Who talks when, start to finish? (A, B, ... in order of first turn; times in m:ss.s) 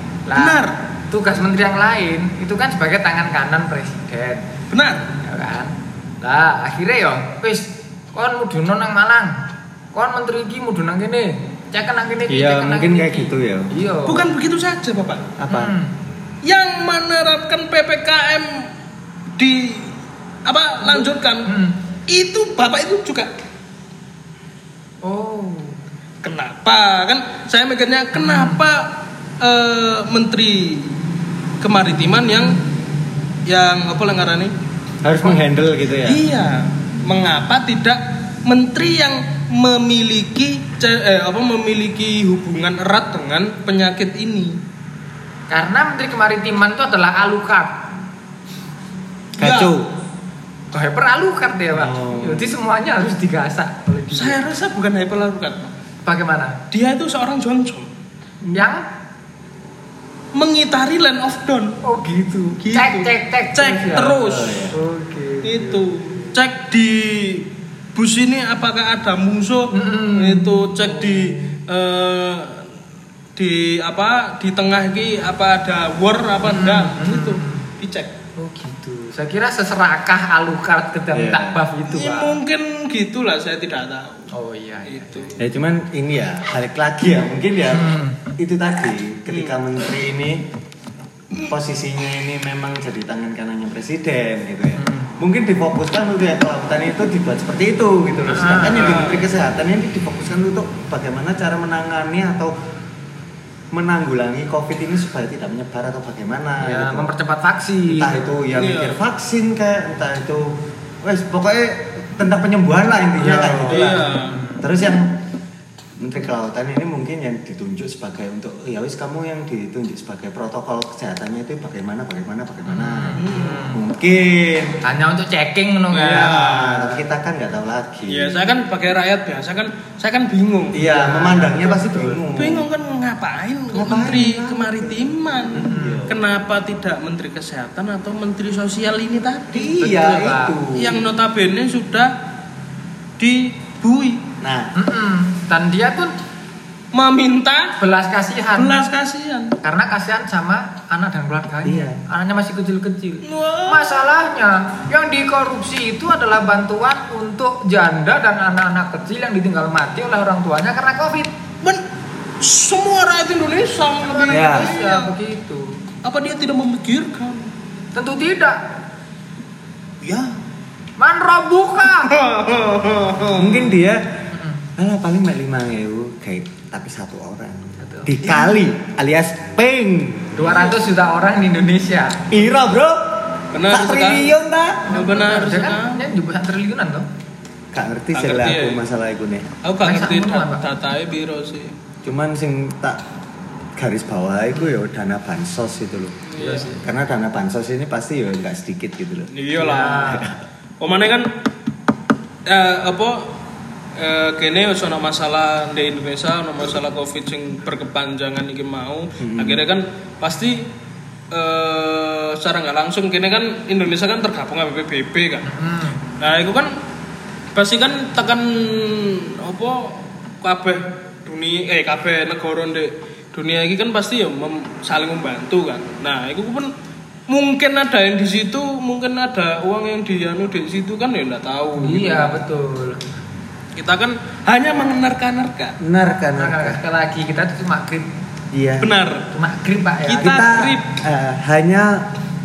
0:00.3-0:04.4 A
0:00.4-0:00.7 B
0:04.7-0:05.1 B
0:05.2-0:09.4 A
0:09.9-0:14.3 A
0:12.3-0:13.7 C
0:14.1-0:15.3 B
0:15.4-0:15.8 C
0:15.5-0:16.0 A
0:16.4-0:18.7 B
0:19.4-0:19.9 B
0:20.4-0:21.5 B
0:20.8-0:21.8 A
0:22.1-0:23.3 B
0:25.0-0:25.8 A
0:26.2-0:31.0 B
0:28.1-0:28.6 A
0:31.6-0:32.6 B
0:33.5-0:34.5 B
0:35.0-0:36.2 C
0:36.0-0:44.6 B
0:45.5-0:47.8 A
0:49.4-0:49.8 B
0:49.4-0:49.9 C
0:50.7-0:54.4 A
0:51.7-0:52.6 C
0:54.1-0:55.7 B
0:56.0-0:56.6 A
0:56.7-0:57.9 B
0:58.5-0:58.8 A
1:00.3-1:01.8 B
1:01.8-1:06.3 A
1:02.6-1:04.7 B
1:04.0-1:04.8 C
1:05.4-1:12.7 B
1:09.7-1:11.6 A
1:13.4-1:18.1 B
1:16.5-1:17.7 A
1:18.4-1:22.4 A
1:21.1-1:21.6 C
1:21.9-1:24.3 B
1:24.3-1:25.4 A
1:24.9-1:25.3 B
1:25.4-1:30.5 C
1:27.7-1:28.3 A
1:29.3-1:29.6 B
1:31.5-1:42.5 C
1:34.8-1:35.1 A
1:38.3-1:39.1 A
1:38.6-1:39.3 B
1:43.7-1:47.1 C
1:46.6-1:48.3 A
1:47.9-1:55.2 C
1:48.5-1:49.0 B
1:53.2-1:54.7 A
1:53.4-1:54.4 B
1:56.0-2:04.8 C
2:02.7-2:03.8 A
2:03.2-2:03.6 B
2:04.8-2:06.8 A
2:05.9-2:07.0 B
2:06.0-2:08.4 C
2:08.1-2:10.9 B
2:10.7-2:12.7 C
2:10.8-2:12.2 A
2:12.4-2:19.8 B
2:13.7-2:16.2 C
2:15.5-2:16.1 A
2:19.5-2:21.0 C
2:19.8-2:20.6 A
2:20.8-2:22.1 B
2:23.2-2:24.2 B
2:24.4-2:24.7 C
2:24.8-2:26.2 A
2:26.9-2:27.8 B
2:27.8-2:28.8 A
2:28.6-2:29.6 B
2:29.6-2:41.3 A
2:31.6-2:32.0 C
2:33.2-2:34.1 B
2:42.4-2:45.1 B
2:44.0-2:45.8 A
2:44.3-2:44.8 C
2:46.0-2:47.5 B
2:48.0-2:48.6 A
2:50.0-2:50.3 B
2:51.0-2:52.1 A
2:51.9-2:53.8 B
2:53.4-2:54.2 C
2:54.3-2:54.6 A
2:54.8-3:00.4 C
2:57.8-2:58.1 A
3:00.4-3:02.4 A
3:00.5-3:00.7 B
3:02.3-3:04.9 C
3:03.5-3:04.3 B
3:04.9-3:06.1 B
3:04.9-3:07.1 A
3:07.7-3:09.5 C
3:08.1-3:08.9 B
3:09.6-3:11.7 B
3:09.8-3:10.6 A
3:12.0-3:13.0 C
3:13.8-3:16.2 C
3:14.5-3:14.8 A
3:16.3-3:16.7 B
3:16.4-3:16.8 A
3:16.8-3:20.4 C
3:19.3-3:20.2 B
3:19.6-3:20.3 A
3:20.8-3:21.3 B
3:22.5-3:23.3 B
3:24.0-3:30.7 B
3:29.2-3:29.6 C
3:31.3-3:35.5 B
3:35.5-3:36.0 A
3:36.2-3:36.8 B
3:37.6-3:46.7 B
3:47.3-3:52.4 B
3:51.8-3:53.0 A
3:53.8-3:55.8 B
3:55.8-3:56.8 C
3:56.4-3:58.1 A
3:58.5-3:58.9 C
3:58.8-3:59.3 B
3:59.3-4:00.7 A
4:00.1-4:00.8 B
4:00.1-4:02.1 C